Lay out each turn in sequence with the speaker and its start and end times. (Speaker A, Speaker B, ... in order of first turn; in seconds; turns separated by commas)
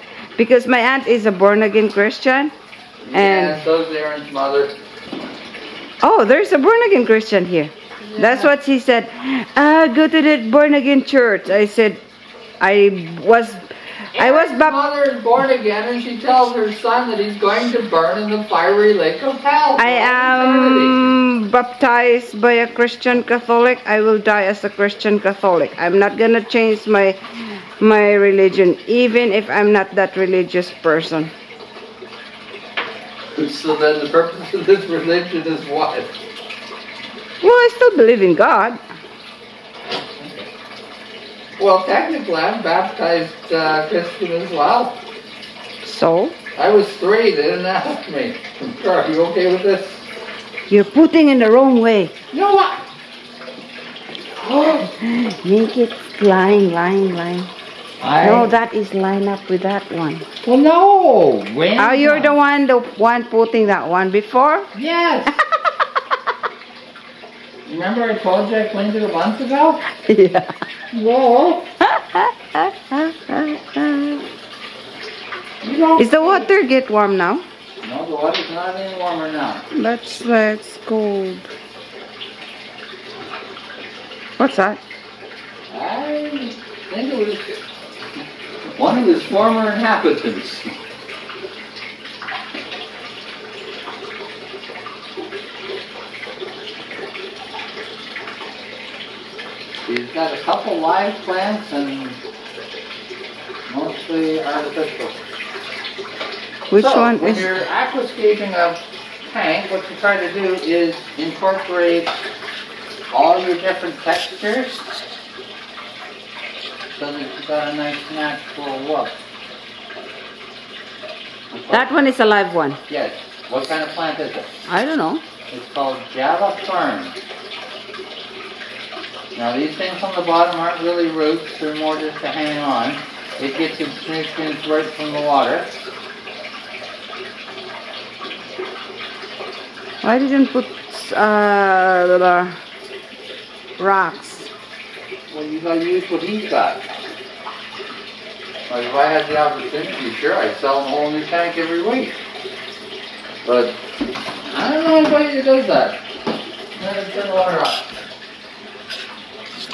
Speaker A: 0.3-2.5, Speaker B: 3.0-4.8, Speaker A: 3.1-3.6, Speaker A: 6.0-12.0, Speaker B: 8.1-8.5, Speaker A: 12.6-14.8, Speaker B: 14.2-21.1, Speaker A: 19.8-31.3, Speaker B: 33.3-36.1, Speaker A: 37.4-38.8, Speaker B: 40.2-40.5, Speaker B: 41.6-45.0, Speaker A: 45.8-46.4, Speaker B: 46.5-50.0, Speaker A: 50.7-52.1, Speaker B: 52.3-52.8, Speaker B: 54.4-54.9, Speaker A: 54.8-57.5, Speaker B: 58.0-58.5, Speaker A: 58.2-60.2, Speaker B: 60.4-62.4, Speaker A: 61.8-64.7, Speaker B: 64.7-65.4, Speaker B: 67.7-69.8, Speaker A: 69.9-70.5, Speaker B: 70.9-71.7, Speaker A: 71.8-74.2, Speaker B: 75.6-76.5, Speaker A: 76.0-77.4, Speaker B: 77.8-79.6, Speaker A: 79.7-81.5, Speaker A: 84.4-84.8, Speaker B: 85.7-87.6, Speaker B: 88.8-90.8, Speaker B: 99.8-102.2, Speaker B: 103.7-105.2, Speaker A: 106.7-107.5, Speaker B: 106.7-112.1, Speaker B: 113.1-114.8, Speaker B: 116.9-119.2, Speaker B: 121.5-121.9, Speaker A: 121.7-122.8, Speaker B: 122.9-124.5, Speaker A: 124.7-125.2, Speaker B: 125.5-127.2, Speaker B: 129.3-135.7, Speaker A: 140.0-142.6, Speaker A: 143.8-144.5, Speaker B: 145.3-146.8, Speaker B: 148.7-152.1, Speaker B: 153.4-153.8, Speaker B: 154.4-156.0, Speaker B: 156.8-157.9